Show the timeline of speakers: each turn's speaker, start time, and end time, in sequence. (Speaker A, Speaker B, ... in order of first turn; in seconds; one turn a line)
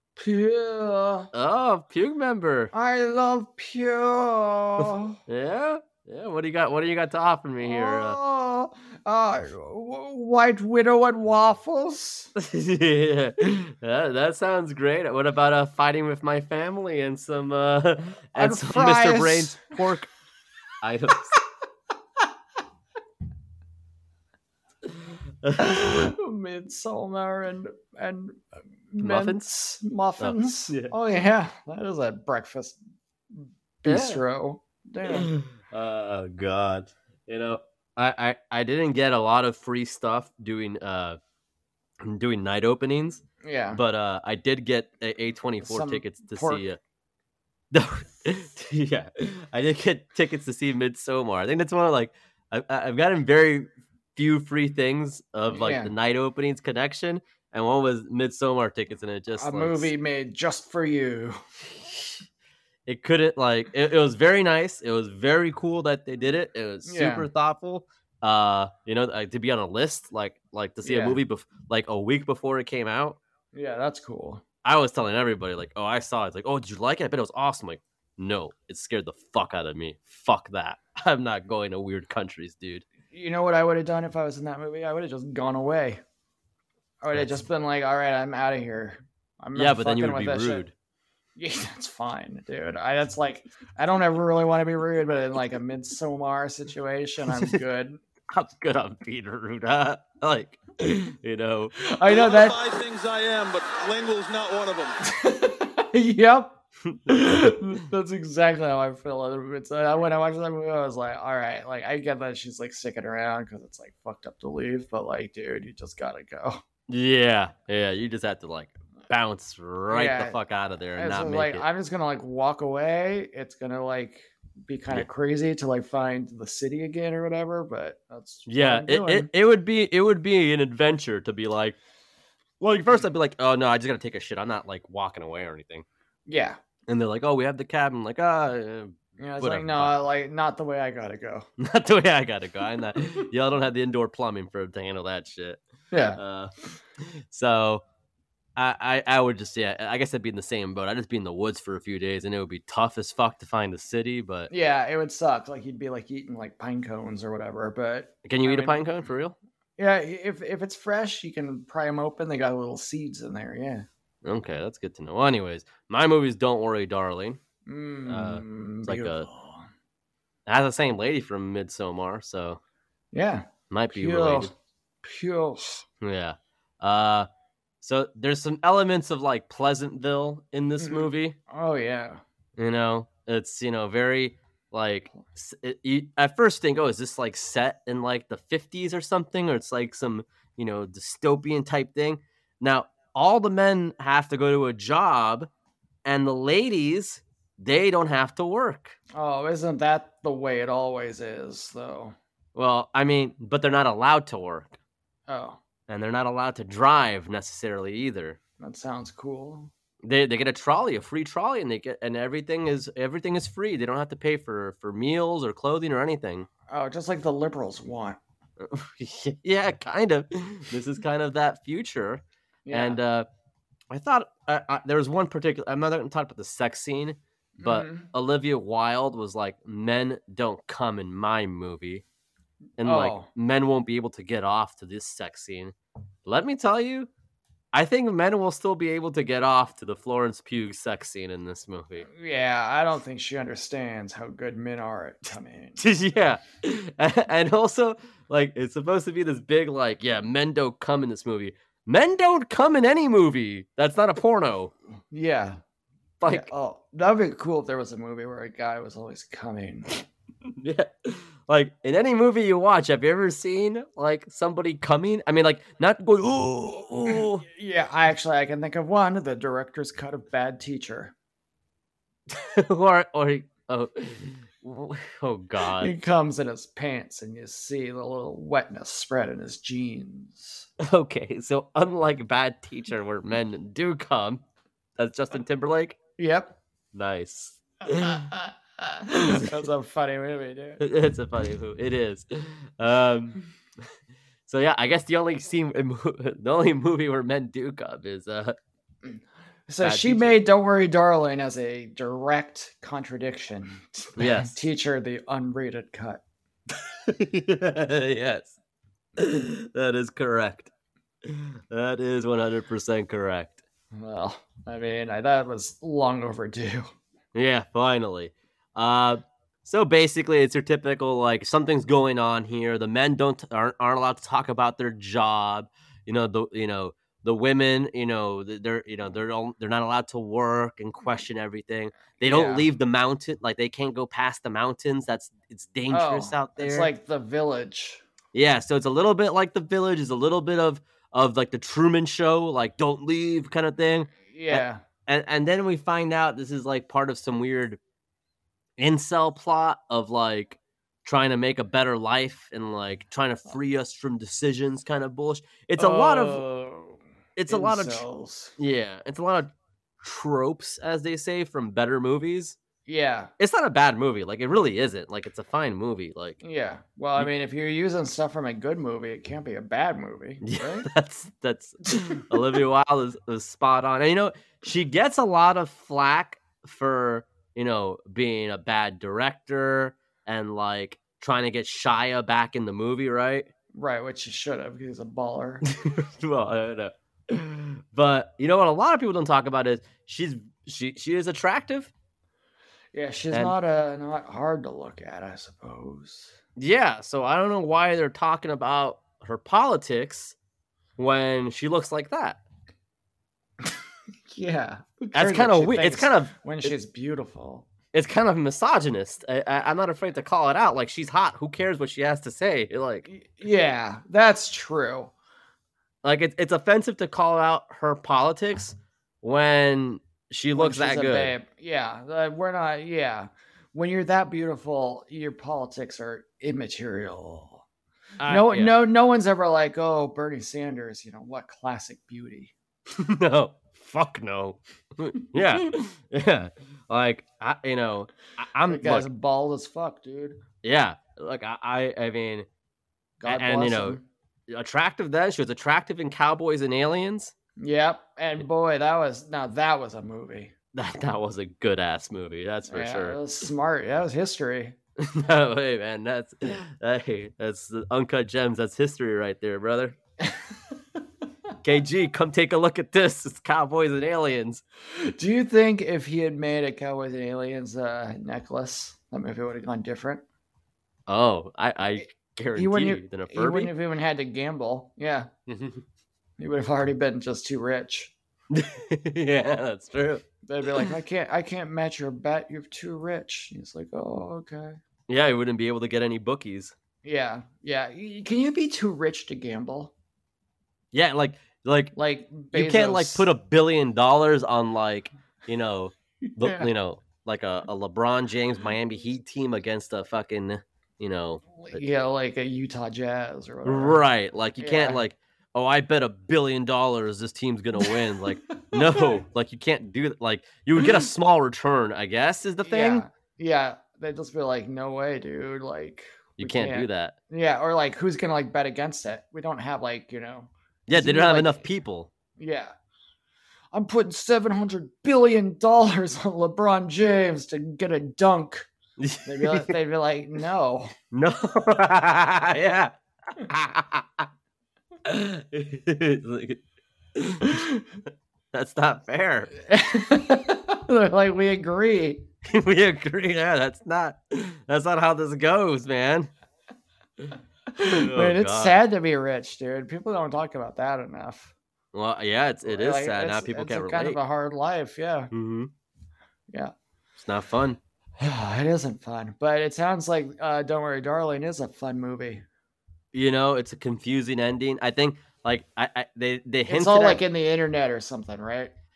Speaker A: 0.2-1.3
Speaker B: 1.3-2.7
Speaker A: 2.7-5.2
Speaker B: 4.8-8.2
Speaker A: 7.6-12.3
Speaker B: 12.4-20.1
Speaker A: 18.4-19.8
Speaker B: 20.8-21.3
Speaker B: 25.4-26.1
Speaker A: 25.6-32.8
Speaker B: 29.0-29.4
Speaker B: 30.2-30.9
Speaker A: 33.3-35.3
Speaker B: 33.9-34.2
Speaker B: 35.0-41.2
Speaker B: 42.0-46.8
Speaker A: 43.4-43.8
Speaker A: 45.6-46.6
Speaker B: 47.7-59.9
Speaker A: 55.5-55.9
Speaker A: 59.4-61.4
Speaker B: 61.7-62.2
Speaker B: 62.9-73.2
Speaker A: 66.8-67.3
Speaker A: 70.8-71.2
Speaker A: 73.5-74.4
Speaker B: 74.6-82.8
Speaker A: 83.1-86.0
Speaker A: 87.0-90.7
Speaker B: 89.5-90.7
Speaker A: 91.4-98.0
Speaker B: 98.3-101.8
Speaker A: 101.8-102.6
Speaker C: 102.1-105.0
Speaker A: 105.0-116.6
Speaker B: 116.9-121.7
Speaker A: 119.9-120.4
Speaker A: 121.0-129.3
Speaker B: 128.5-131.8
Speaker B: 132.6-135.8
Speaker A: 136.3-136.6
Speaker B: 136.9-139.9
Speaker A: 139.2-141.5
Speaker B: 141.6-145.6
Speaker A: 145.9-146.2
Speaker B: 146.2-147.8
Speaker B: 148.6-154.5
Speaker A: 154.5-158.9
Speaker B: 158.2-159.4
Speaker A: 159.8-163.9
Speaker B: 164.2-167.4
Speaker A: 167.7-169.7
Speaker B: 168.1-169.3
Speaker B: 170.5-172.6
Speaker A: 173.1-174.5
Speaker B: 173.7-174.5
Speaker A: 175.0-175.8
Speaker B: 176.0-177.3
Speaker B: 177.8-181.4
Speaker A: 180.8-182.2
Speaker B: 182.6-195.5
Speaker B: 196.1-199.0
Speaker A: 199.1-202.2
Speaker B: 202.6-204.8
Speaker A: 205.3-205.6
Speaker B: 205.9-208.4
Speaker A: 208.6-209.7
Speaker B: 210.0-216.5
Speaker A: 216.7-218.2
Speaker B: 218.6-223.3
Speaker A: 222.7-223.0
Speaker B: 223.9-232.0
Speaker A: 227.6-228.1
Speaker B: 232.8-235.7
Speaker A: 232.8-233.3
Speaker B: 236.2-237.1
Speaker B: 237.7-242.1
Speaker A: 242.1-245.8
Speaker B: 245.8-254.7
Speaker A: 255.1-255.6
Speaker B: 256.2-256.5
Speaker A: 256.2-260.1
Speaker B: 260.6-267.4
Speaker A: 267.1-271.1
Speaker B: 272.3-275.9
Speaker A: 275.8-280.7
Speaker B: 280.8-284.4
Speaker B: 285.0-286.0
Speaker A: 286.2-286.6
Speaker B: 286.9-288.3
Speaker A: 288.0-290.8
Speaker B: 289.3-289.6
Speaker B: 290.8-293.4
Speaker B: 294.5-298.6
Speaker A: 299.0-306.2
Speaker B: 299.8-300.4
Speaker B: 304.2-304.6
Speaker B: 306.9-308.6
Speaker B: 309.2-310.7
Speaker B: 311.2-313.6
Speaker A: 313.9-316.9
Speaker B: 317.3-336.9
Speaker A: 332.2-332.7
Speaker A: 335.9-338.0
Speaker B: 338.3-347.8
Speaker A: 344.3-344.8
Speaker B: 348.8-356.4
Speaker A: 355.8-358.6
Speaker B: 357.4-358.1
Speaker B: 358.6-362.6
Speaker A: 362.9-363.3
Speaker B: 363.4-366.4
Speaker A: 366.4-370.9
Speaker B: 370.4-383.5
Speaker A: 383.7-385.6
Speaker B: 385.6-391.9
Speaker A: 392.9-396.4
Speaker B: 396.6-400.4
Speaker B: 401.0-402.4
Speaker A: 404.3-407.7
Speaker B: 405.1-406.7
Speaker B: 407.9-413.1
Speaker A: 413.1-415.1
Speaker B: 416.0-421.4
Speaker A: 420.6-427.6
Speaker B: 428.2-428.8
Speaker A: 428.3-432.5
Speaker B: 432.9-439.1
Speaker A: 438.7-440.4
Speaker B: 440.6-442.5
Speaker A: 443.2-444.0
Speaker B: 443.3-447.3
Speaker A: 447.6-450.5
Speaker B: 450.7-453.2
Speaker A: 452.7-454.8
Speaker B: 455.0-460.0
Speaker B: 461.6-464.6
Speaker A: 464.9-470.2
Speaker B: 471.1-473.7
Speaker A: 472.0-475.3
Speaker B: 475.5-475.8
Speaker A: 476.4-478.1
Speaker B: 478.5-480.2
Speaker A: 480.4-484.8
Speaker B: 485.1-486.8
Speaker A: 487.0-489.9
Speaker B: 490.9-491.9
Speaker A: 491.9-493.3
Speaker B: 492.5-501.8
Speaker A: 496.2-496.7
Speaker A: 501.6-504.0
Speaker B: 503.6-513.1
Speaker A: 504.6-505.0
Speaker A: 507.8-509.2
Speaker A: 512.6-521.6
Speaker B: 516.4-517.2
Speaker B: 520.9-522.1
Speaker A: 522.4-522.7
Speaker A: 523.7-528.7
Speaker B: 529.0-529.8
Speaker A: 529.2-530.9
Speaker B: 531.1-534.3
Speaker B: 535.0-536.6
Speaker B: 537.2-537.6
Speaker A: 537.4-537.8
Speaker B: 538.5-539.5
Speaker A: 539.6-542.3
Speaker B: 542.4-546.3
Speaker A: 547.7-551.5
Speaker B: 547.9-548.8
Speaker B: 551.9-554.2
Speaker A: 552.6-555.3
Speaker B: 555.3-555.7
Speaker B: 557.2-557.8
Speaker A: 558.2-562.4
Speaker B: 563.1-567.2
Speaker A: 566.7-568.7